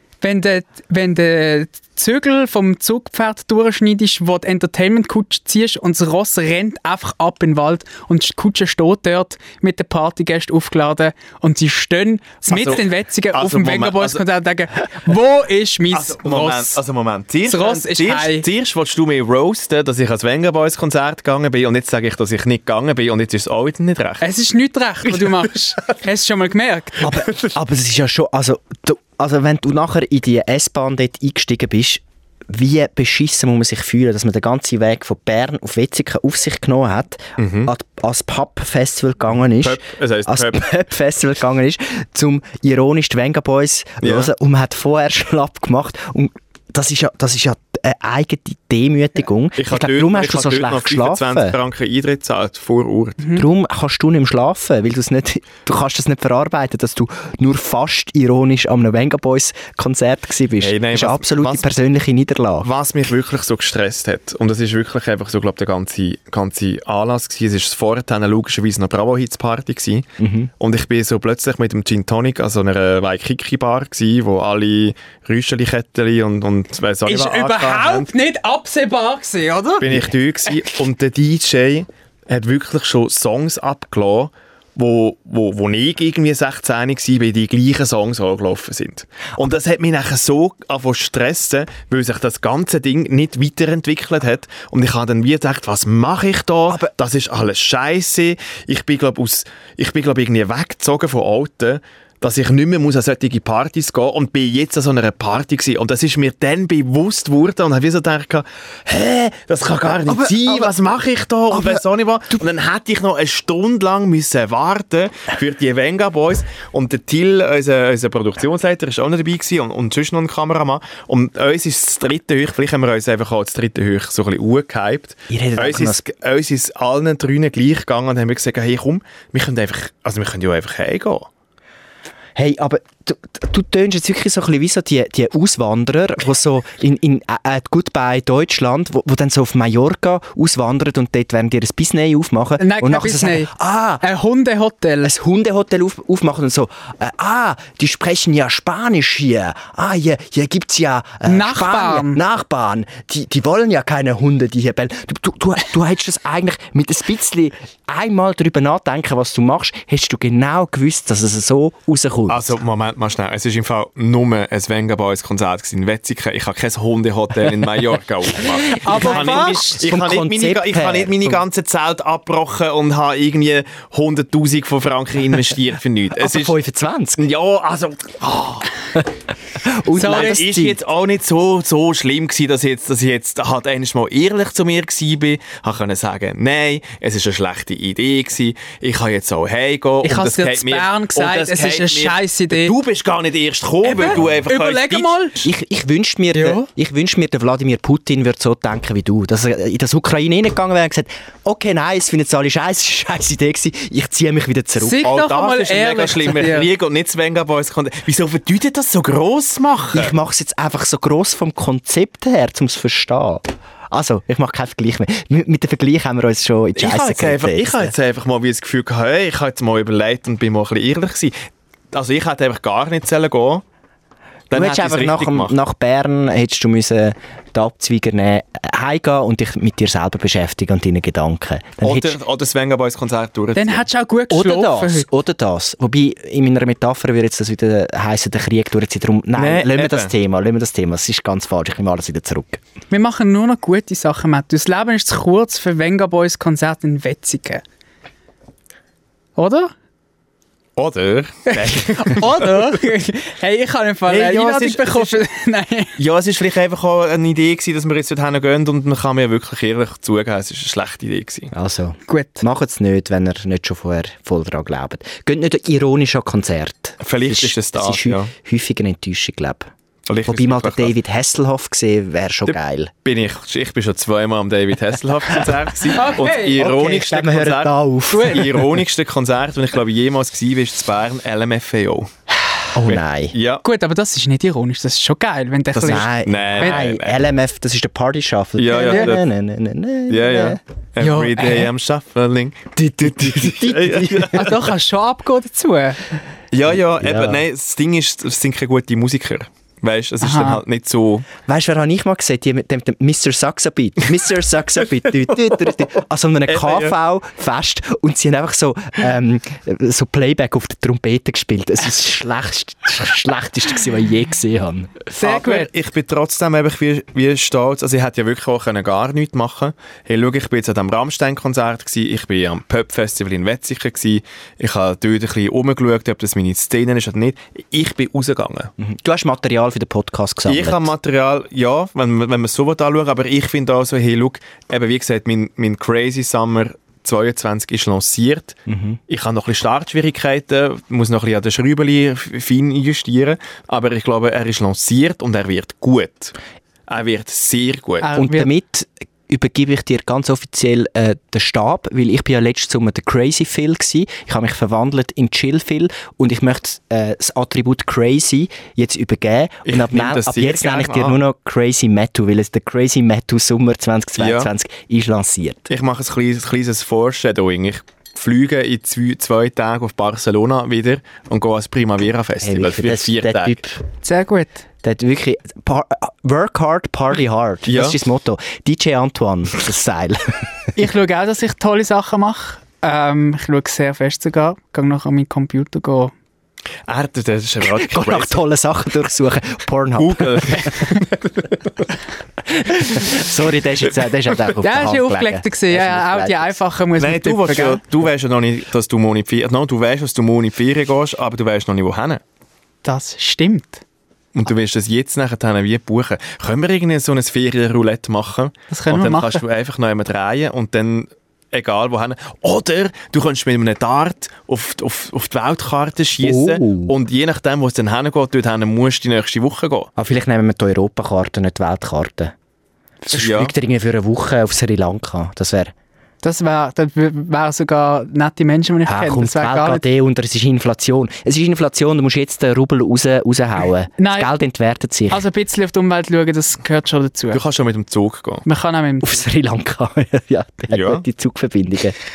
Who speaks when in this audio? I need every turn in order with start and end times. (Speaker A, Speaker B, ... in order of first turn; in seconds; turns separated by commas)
Speaker A: 0.2-16.8, Speaker B: 12.5-14.2, Speaker B: 15.9-24.2, Speaker A: 17.4-18.5, Speaker A: 24.2-27.1, Speaker C: 27.0-51.6, Speaker B: 27.1-27.5, Speaker B: 37.4-37.7, Speaker B: 39.6-40.6, Speaker B: 44.0-44.3, Speaker B: 49.6-53.2, Speaker A: 53.2-53.5, Speaker C: 53.4-62.7, Speaker B: 60.6-61.7, Speaker B: 62.6-70.1, Speaker C: 70.2-70.5, Speaker B: 70.6-78.1, Speaker A: 77.1-79.9, Speaker B: 79.8-131.3, Speaker C: 110.1-110.7, Speaker C: 111.5-111.8, Speaker C: 125.3-126.0, Speaker C: 132.4-144.0, Speaker A: 142.6-145.1, Speaker C: 145.0-162.6, Speaker A: 151.2-152.2, Speaker B: 162.3-176.6, Speaker C: 168.4-171.4, Speaker A: 168.8-169.8, Speaker C: 176.2-177.2, Speaker B: 177.2-178.7, Speaker C: 179.6-180.8, Speaker A: 179.9-180.4, Speaker B: 180.0-195.2, Speaker A: 190.0-192.7, Speaker A: 193.8-195.5, Speaker C: 195.4-205.0, Speaker A: 196.3-196.7, Speaker A: 204.8-206.7, Speaker B: 205.0-210.2, Speaker C: 209.9-217.9, Speaker B: 216.8-221.4, Speaker B: 221.9-223.6, Speaker B: 224.5-225.5, Speaker C: 224.5-232.2, Speaker B: 231.8-233.8, Speaker A: 233.6-235.1, Speaker C: 234.3-242.6, Speaker B: 239.4-240.1, Speaker A: 242.9-247.6, Speaker A: 249.4-249.7, Speaker B: 250.8-252.8, Speaker A: 251.5-256.0, Speaker B: 254.1-255.2, Speaker B: 256.0-261.5, Speaker C: 261.5-269.7, Speaker A: 262.1-262.4, Speaker B: 267.0-268.3, Speaker B: 270.1-270.9, Speaker C: 270.3-272.9, Speaker B: 272.5-277.8, Speaker A: 275.9-276.6, Speaker C: 276.6-278.7, Speaker A: 278.1-278.4, Speaker B: 278.3-282.1, Speaker C: 282.7-283.4, Speaker B: 282.9-283.6, Speaker A: 283.6-286.8, Speaker C: 285.7-290.6, Speaker B: 285.9-287.2, Speaker B: 288.6-289.2, Speaker A: 288.7-289.1, Speaker B: 290.1-294.6, Speaker A: 291.0-291.7, Speaker C: 292.8-294.5, Speaker A: 294.3-296.1, Speaker B: 296.5-301.3, Speaker C: 297.0-297.4, Speaker A: 300.2-300.6, Speaker C: 301.5-315.0, Speaker B: 306.5-306.9, Speaker A: 315.1-315.7, Speaker B: 315.2-328.7, Speaker C: 328.8-330.9, Speaker B: 330.5-346.4, Speaker C: 338.7-339.0, Speaker B: 346.9-348.1, Speaker A: 348.0-348.5, Speaker C: 348.1-365.7, Speaker B: 359.7-361.2, Speaker B: 364.2-364.5, Speaker B: 365.7-373.6, Speaker C: 372.4-373.8, Speaker A: 374.0-374.6, Speaker C: 374.8-380.7, Speaker B: 377.7-378.0, Speaker A: 380.8-386.1, Speaker B: 386.9-388.4, Speaker C: 387.6-390.9, Speaker B: 389.9-391.9, Speaker C: 392.5-396.6, Speaker A: 394.6-397.8, Speaker B: 397.0-402.2, Speaker A: 402.8-403.8, Speaker B: 404.3-419.9, Speaker A: 408.7-409.4, Speaker C: 416.2-416.9, Speaker C: 420.0-422.3, Speaker C: 423.1-425.7, Speaker B: 423.1-423.5, Speaker A: 426.2-429.9, Speaker C: 428.9-435.2, Speaker A: 434.0-434.3, Speaker A: 435.1-437.4, Speaker B: 437.3-438.4, Speaker A: 438.4-439.2, Speaker C: 439.0-442.0, Speaker B: 440.7-441.0